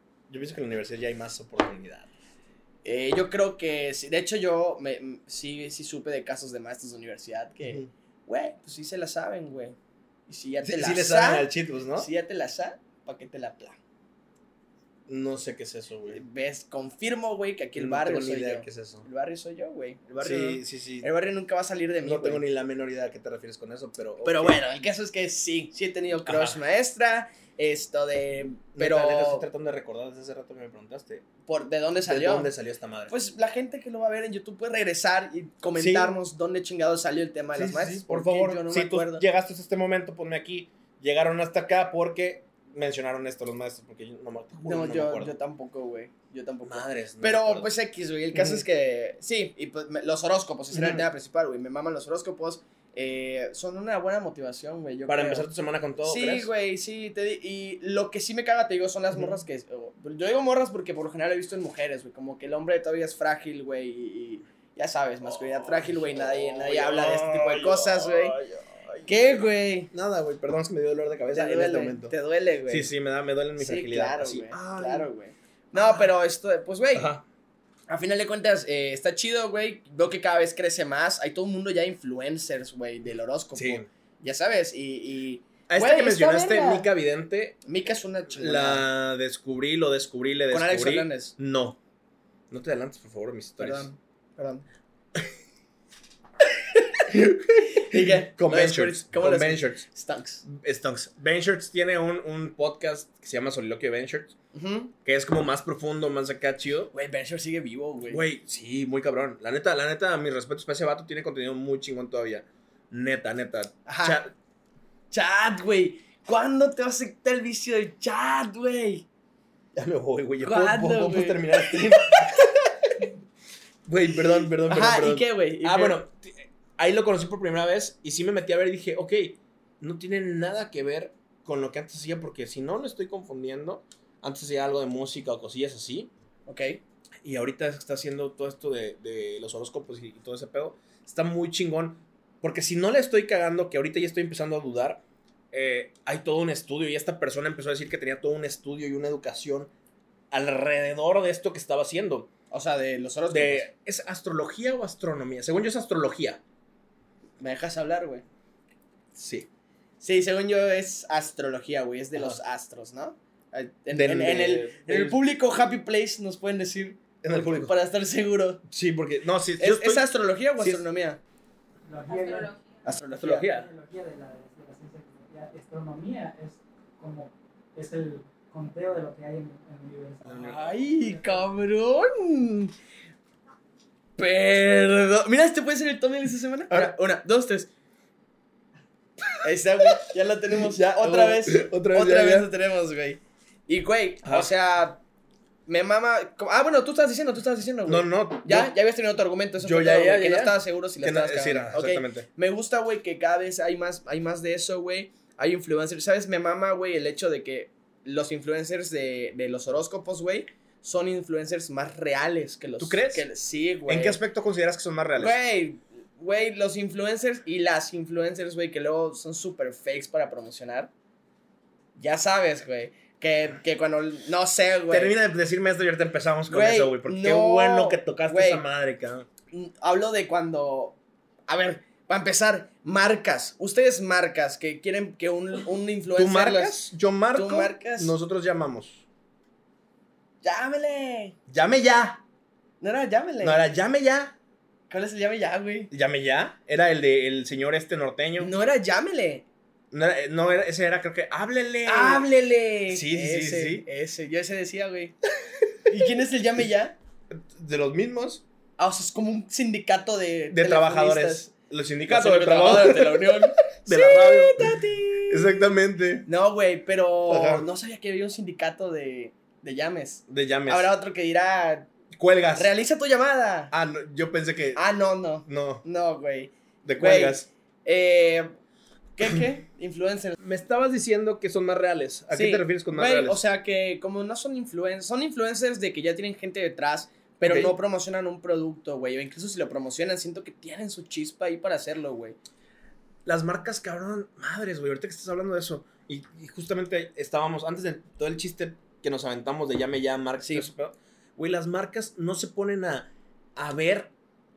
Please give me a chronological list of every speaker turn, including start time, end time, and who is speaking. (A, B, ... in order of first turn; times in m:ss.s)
0:00.3-0:02.1 A
0:02.8-0:09.8 B
0:07.6-0:07.9 A
0:10.3-0:13.8 B
0:10.6-0:12.1 A
0:15.1-0:16.2 A
0:16.1-0:22.4 B
0:17.8-0:19.1 A
0:20.2-0:21.1 A
0:22.0-0:24.6 A
0:24.2-0:29.5 B
0:26.3-0:26.6 A
0:28.8-0:31.2 A
0:31.5-0:32.5 B
0:32.0-0:33.1 A
0:33.1-0:39.2 B
0:35.8-0:36.2 A
0:37.5-0:45.3 A
0:44.6-0:55.5 B
0:46.6-0:47.7 A
0:48.3-0:48.6 A
0:50.7-0:51.0 A
0:55.1-0:56.5 A
0:56.0-1:08.4 B
1:05.6-1:09.4 A
1:09.0-1:09.9 B
1:09.9-1:12.1 A
1:11.3-1:12.9 B
1:12.7-1:15.1 A
1:13.6-1:17.1 B
1:15.7-1:16.1 A
1:16.9-1:17.2 A
1:17.9-1:26.9 B
1:23.6-1:23.9 A
1:25.7-1:27.6 A
1:27.6-1:28.8 B
1:28.4-1:31.8 A
1:30.5-1:31.4 B
1:32.5-1:33.9 A
1:33.6-1:34.6 B
1:37.1-1:39.8 A
1:37.7-1:40.4 B
1:40.4-1:44.4 A
1:44.5-1:44.9 B
1:45.0-1:46.9 A
1:46.9-1:48.2 B
1:48.1-1:54.3 A
1:53.9-1:54.2 B
1:55.1-1:59.1 B
1:59.8-2:02.6 A
2:00.4-2:02.5 B
2:03.9-2:16.1 A
2:04.5-2:06.0 B
2:16.5-2:16.8 B
2:17.2-2:29.7 A
2:30.3-2:32.3 A
2:32.5-2:33.7 B
2:33.3-2:36.4 A
2:37.4-2:38.2 B
2:39.2-2:39.5 A
2:40.0-2:48.6 B
2:43.9-2:45.2 A
2:47.2-2:47.7 A
2:48.7-2:50.1 A
2:49.6-2:51.2 B
2:50.6-2:50.8 A
2:51.8-2:52.7 C
2:52.8-2:53.7 B
2:53.2-3:01.5 C
2:53.2-2:53.6 A
3:00.3-3:00.6 A
3:00.3-3:02.7 B
3:04.2-3:07.7 B
3:09.4-3:15.0 B
3:10.5-3:12.5 A
3:14.2-3:14.5 A
3:15.7-3:34.2 B
3:17.9-3:18.7 A
3:19.6-3:22.3 A
3:32.8-3:33.3 A
3:33.9-3:35.4 A
3:35.2-3:40.9 B
3:42.0-3:45.1 B
3:44.9-3:49.3 A
3:46.5-3:48.6 B
3:49.5-3:51.0 B
3:51.5-3:56.8 B
3:56.2-3:59.0 A
3:57.3-3:58.2 B
4:00.4-4:01.4 B
4:01.5-4:02.2 A
4:02.8-4:03.7 B
4:03.4-4:04.4 A
4:04.9-4:05.9 B
4:05.9-4:08.5 A
4:08.4-4:09.5 B
4:09.9-4:12.3 A
4:11.8-4:15.2 B
4:12.9-4:13.9 A
4:15.9-4:17.0 B
4:17.3-4:18.4 A
4:18.8-4:21.5 B
4:20.5-4:26.3 A
4:22.1-4:25.7 B
4:26.3-4:31.9 B
4:27.3-4:27.7 A
4:30.3-4:30.9 A
4:32.1-4:32.7 A
4:32.6-4:33.7 B
4:33.7-4:34.8 A
4:34.8-4:38.5 B
4:35.5-4:35.8 A
4:36.8-4:37.5 A
4:39.2-4:40.4 B
4:40.4-4:43.4 A
4:42.3-4:52.4 B
4:47.4-4:47.8 A
4:53.2-5:04.1 A
5:00.4-5:00.7 B